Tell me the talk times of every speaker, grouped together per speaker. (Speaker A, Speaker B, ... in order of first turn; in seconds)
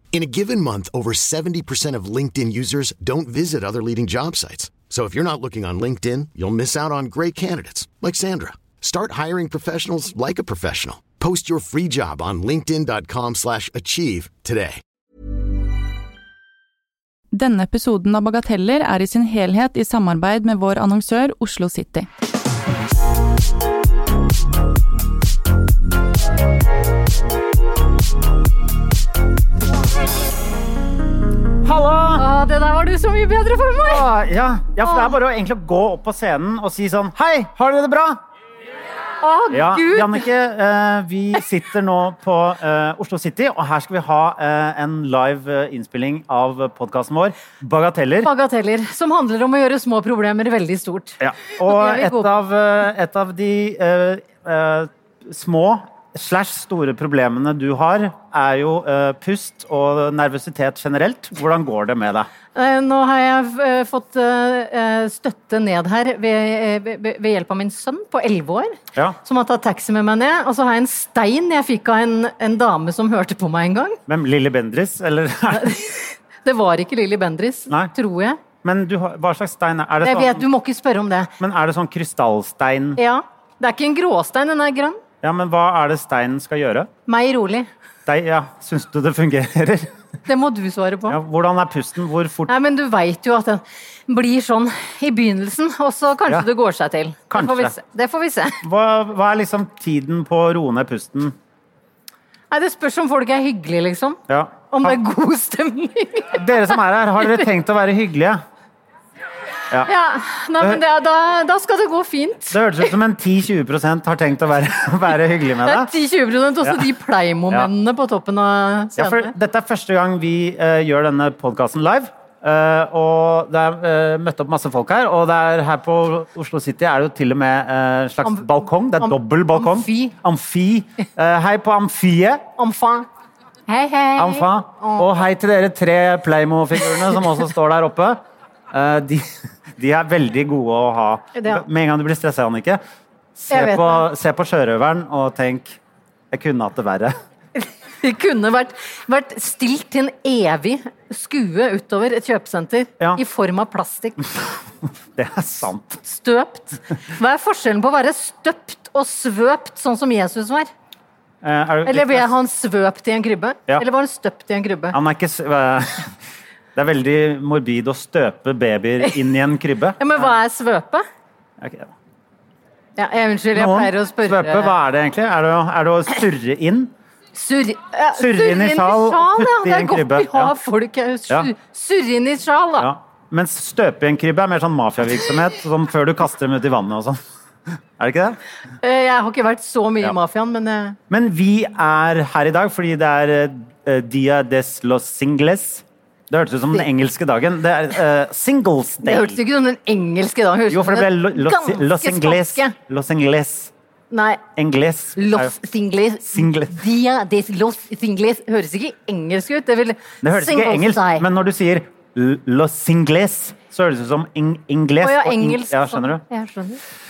Speaker A: 0.1-14.8
Speaker B: 17.4-22.1
Speaker C: 31.6-32.2, 33.9-38.2, 39.5-48.3, 51.2-62.3, 74.1-75.8, 78.6-80.5, 81.4-83.0, 85.2-86.9, 88.1-89.9, 91.1-92.5, 97.3-97.7, 98.6-101.3, 104.3-105.0, 106.3-108.4, 112.5-115.9, 119.0-132.4, 134.2-138.2, 138.7-142.8, 143.4-145.8, 146.3-147.2, 155.2-156.0, 161.4-162.3, 164.9-166.1, 166.8-170.0, 171.6-171.9, 173.6-176.9, 178.2-180.5, 182.8-187.2, 188.0-188.4, 191.1-199.4, 200.7-203.7, 204.6-205.5, 206.3-206.8, 210.2-216.2
Speaker D: 32.2-34.1, 34.8-35.1, 39.2-40.3, 48.2-52.3, 62.5-74.0, 75.5-75.9, 76.4-78.4, 80.0-81.3, 83.0-85.0, 87.1-87.7, 90.3-91.2, 92.5-98.6, 102.5-106.8, 109.8-112.6, 115.7-119.3, 129.0-130.1, 132.6-133.1, 133.7-135.1, 141.4-141.6, 143.5-144.1, 147.6-154.2, 156.0-160.7, 161.8-165.0, 170.0-171.0, 173.0-174.7, 177.3-182.9, 188.8-191.0, 199.0-202.7, 204.1-204.4, 205.2-211.2, 215.0-216.8